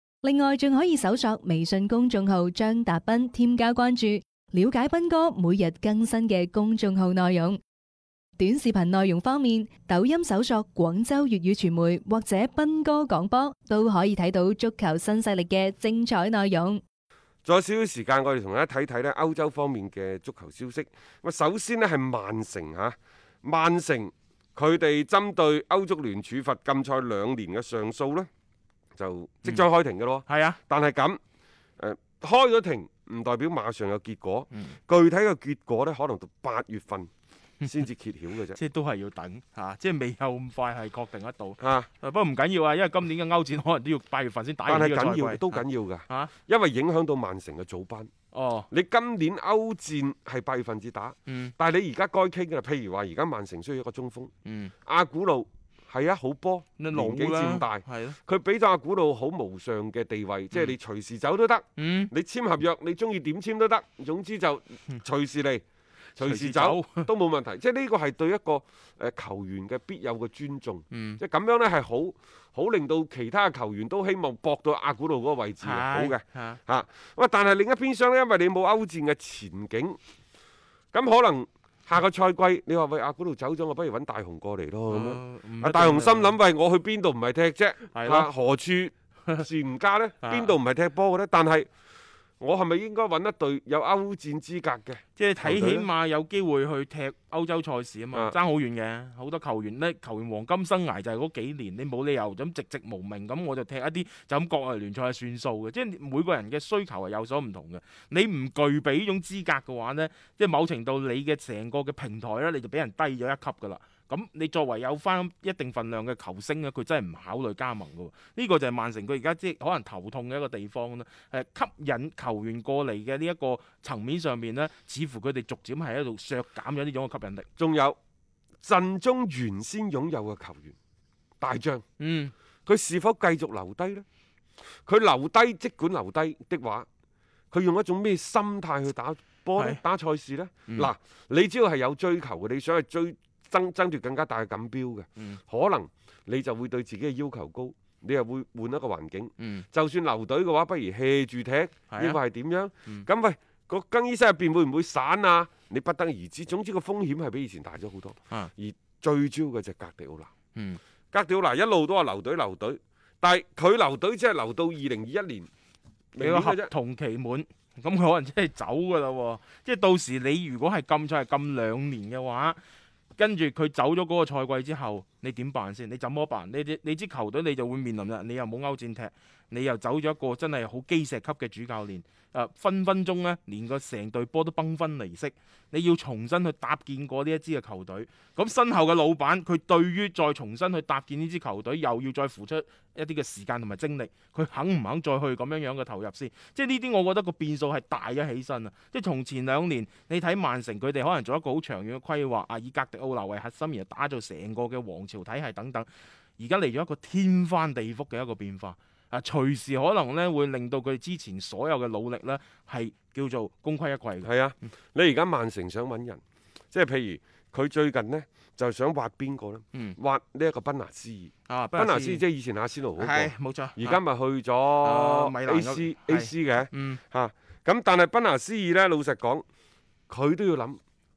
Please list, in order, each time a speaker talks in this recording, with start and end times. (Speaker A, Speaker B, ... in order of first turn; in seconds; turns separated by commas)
Speaker A: 0.2-7.6, Speaker A: 8.4-16.8, Speaker B: 17.4-28.3, Speaker B: 28.9-31.2, Speaker C: 30.3-30.6, Speaker B: 31.8-37.1, Speaker B: 37.6-38.6, Speaker C: 38.5-46.3, Speaker B: 41.6-41.9, Speaker B: 44.7-48.1, Speaker C: 48.3-48.7, Speaker B: 48.7-54.3, Speaker C: 51.3-51.5, Speaker C: 54.5-54.7, Speaker B: 54.8-65.6, Speaker C: 56.8-58.2, Speaker C: 61.8-62.1, Speaker B: 66.2-80.0, Speaker C: 66.2-67.1, Speaker C: 70.9-71.2, Speaker C: 75.6-76.6, Speaker B: 80.9-91.7, Speaker C: 84.9-86.3, Speaker C: 87.9-88.3, Speaker C: 90.2-90.5, Speaker B: 92.4-95.9, Speaker C: 95.2-127.5, Speaker B: 127.6-128.0, Speaker B: 128.6-130.8, Speaker B: 131.4-131.8, Speaker C: 132.0-132.3, Speaker B: 132.7-134.1, Speaker B: 134.8-136.9, Speaker B: 137.5-160.3, Speaker C: 149.4-149.6, Speaker C: 151.9-152.2, Speaker B: 161.1-165.5, Speaker B: 166.1-166.7, Speaker C: 166.2-172.6, Speaker C: 173.2-205.9, Speaker C: 206.4-214.3, Speaker B: 214.2-216.2, Speaker B: 216.7-229.4, Speaker C: 221.5-222.2, Speaker C: 223.0-224.0, Speaker C: 224.8-227.0, Speaker B: 230.1-230.8